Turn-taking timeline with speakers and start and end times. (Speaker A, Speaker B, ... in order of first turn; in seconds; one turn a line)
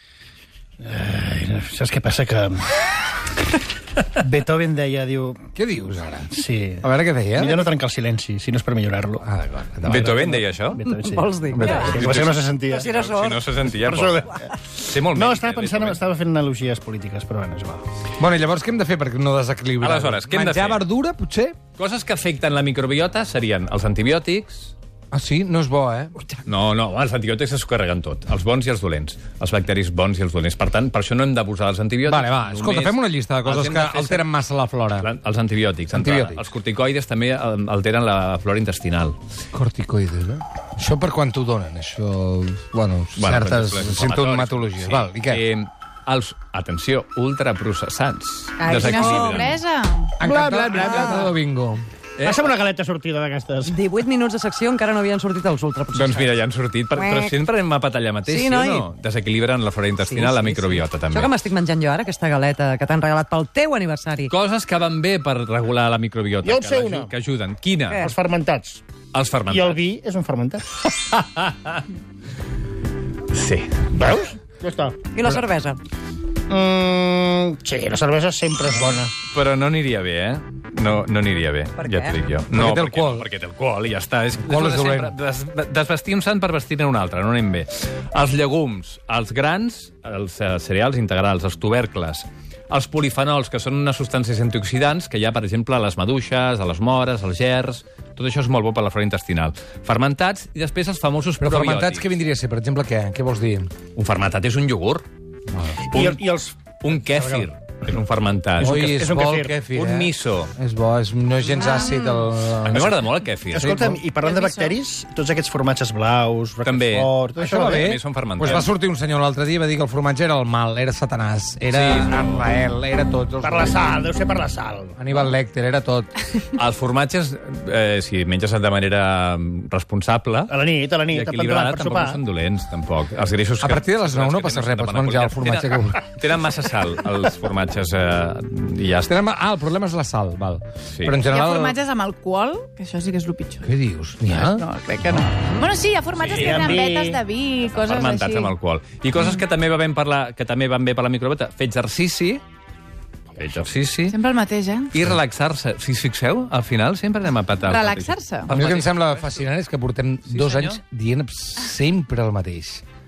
Speaker A: 0.8-2.7
Speaker A: 4.1-5.4
Speaker B: 5.5-7.7
Speaker A: 6.3-9.2
Speaker B: 9.2-10.1
Speaker A: 9.8-12.9
Speaker C: 9.8-10.8
Speaker D: 10.8-13.4
Speaker C: 11.5-16.0
Speaker E: 11.7-11.9
Speaker A: 13.7-17.8
Speaker B: 18.2-21.6
Speaker C: 19.8-20.9
Speaker C: 21.8-24.7
Speaker B: 25.1-26.1
Speaker C: 26.4-34.3
Speaker B: 32.1-35.1
Speaker C: 35.0-39.2
Speaker B: 35.9-36.4
Speaker B: 39.5-45.5
Speaker C: 43.2-49.6
Speaker E: 48.6-50.2
Speaker D: 48.7-49.6
Speaker B: 50.2-51.8
Speaker A: 50.2-51.2
Speaker D: 50.7-51.3
Speaker A: 52.2-53.7
Speaker D: 53.6-56.4
Speaker C: 55.9-61.4
Speaker D: 56.9-57.4
Speaker D: 58.2-58.9
Speaker D: 60.0-64.3
Speaker C: 64.3-68.0
Speaker A: 66.4-67.1
Speaker D: 67.9-68.2
Speaker A: 68.0-68.8
Speaker C: 69.1-69.8
Speaker A: 69.5-70.7
Speaker C: 71.0-71.8
Speaker C: 73.3-74.2
Speaker A: 73.9-75.0
Speaker D: 75.1-75.8
Speaker A: 76.5-79.1
Speaker C: 79.3-102.1
Speaker D: 81.8-82.2
Speaker B: 82.5-83.3
Speaker B: 84.4-85.1
Speaker B: 101.4-103.7
Speaker C: 104.0-105.1
Speaker C: 105.9-106.2
Speaker A: 105.9-107.5
Speaker C: 106.8-108.8
Speaker A: 108.6-109.6
Speaker B: 108.6-113.0
Speaker C: 109.7-110.5
Speaker E: 111.6-112.3
Speaker C: 112.6-113.9
Speaker A: 113.5-117.9
Speaker B: 113.7-114.0
Speaker E: 114.2-114.8
Speaker C: 116.6-118.7
Speaker B: 117.4-124.1
Speaker C: 121.7-122.5
Speaker A: 123.4-125.2
Speaker B: 125.0-126.2
Speaker C: 126.5-130.6
Speaker A: 130.5-132.2
Speaker C: 131.1-139.2
Speaker B: 133.6-136.2
Speaker B: 139.1-141.8
Speaker C: 140.9-141.2
Speaker E: 141.3-143.7
Speaker B: 143.6-144.7
Speaker E: 144.3-148.5
Speaker C: 146.2-146.8
Speaker A: 146.3-147.2
Speaker C: 147.8-152.4
Speaker C: 153.4-154.2
Speaker E: 154.1-155.0
Speaker C: 154.9-159.4
Speaker E: 157.6-158.5
Speaker B: 158.5-162.8
Speaker C: 160.3-160.8